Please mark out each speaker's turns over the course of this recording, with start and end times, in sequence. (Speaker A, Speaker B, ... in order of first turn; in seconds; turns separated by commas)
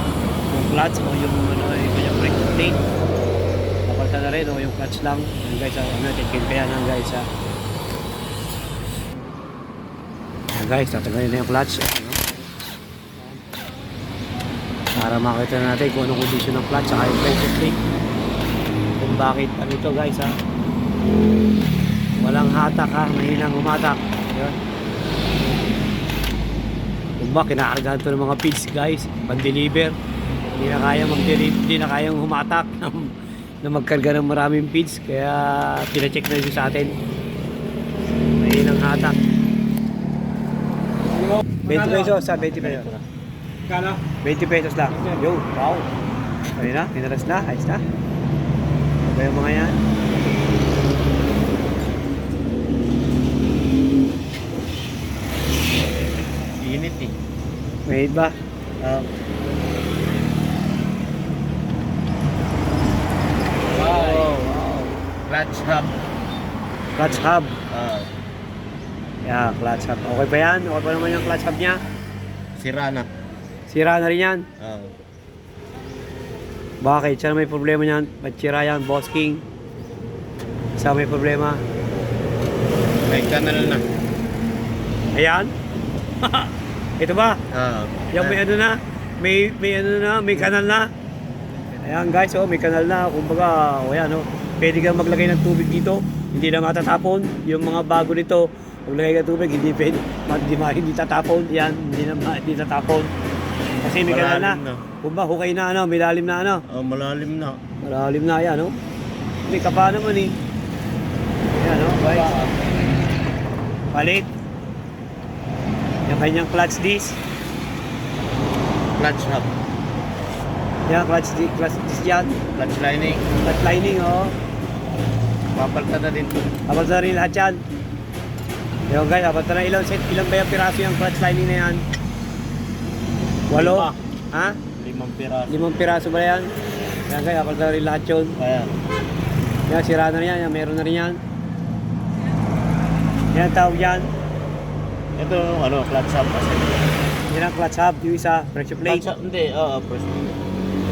Speaker A: 0.5-2.8, Speaker A: 3.9-7.3, Speaker A: 10.5-12.2, Speaker A: 14.9-17.8, Speaker A: 19.0-20.3, Speaker A: 22.2-24.6, Speaker A: 27.2-29.9, Speaker A: 30.6-37.0, Speaker A: 38.4-39.2, Speaker A: 41.6-42.9, Speaker B: 42.4-43.0, Speaker A: 44.2-45.9, Speaker A: 46.6-47.8, Speaker A: 49.0-49.8, Speaker B: 56.6-57.1, Speaker A: 57.9-58.3, Speaker B: 58.8-59.1, Speaker A: 63.7-64.9, Speaker B: 63.8-64.4, Speaker B: 65.3-65.9, Speaker A: 67.0-67.5, Speaker B: 67.7-68.1, Speaker A: 69.2-71.8, Speaker B: 72.5-73.1, Speaker A: 73.7-74.5, Speaker B: 74.6-74.9, Speaker A: 76.8-79.4, Speaker A: 80.8-81.6, Speaker B: 83.0-83.8, Speaker A: 85.1-85.5, Speaker A: 86.2-87.4, Speaker B: 87.5-88.4, Speaker A: 88.1-90.9, Speaker A: 91.8-103.1, Speaker A: 103.8-106.6, Speaker B: 104.0-104.8, Speaker B: 106.7-107.6, Speaker A: 107.8-108.8, Speaker A: 109.5-110.3, Speaker A: 111.5-112.3, Speaker B: 111.9-112.8, Speaker A: 113.9-114.3, Speaker A: 116.1-117.2, Speaker B: 118.9-119.5, Speaker A: 120.9-122.4, Speaker B: 122.5-123.3, Speaker A: 123.4-124.3, Speaker B: 125.5-126.4, Speaker A: 126.7-127.6, Speaker A: 128.9-131.8, Speaker A: 133.5-134.6, Speaker B: 133.5-134.0, Speaker B: 134.8-135.7, Speaker A: 135.5-136.5, Speaker A: 137.1-138.3, Speaker B: 138.4-138.8, Speaker A: 139.7-141.2, Speaker A: 143.3-144.1, Speaker B: 145.2-146.9, Speaker A: 147.3-149.1, Speaker B: 148.8-150.3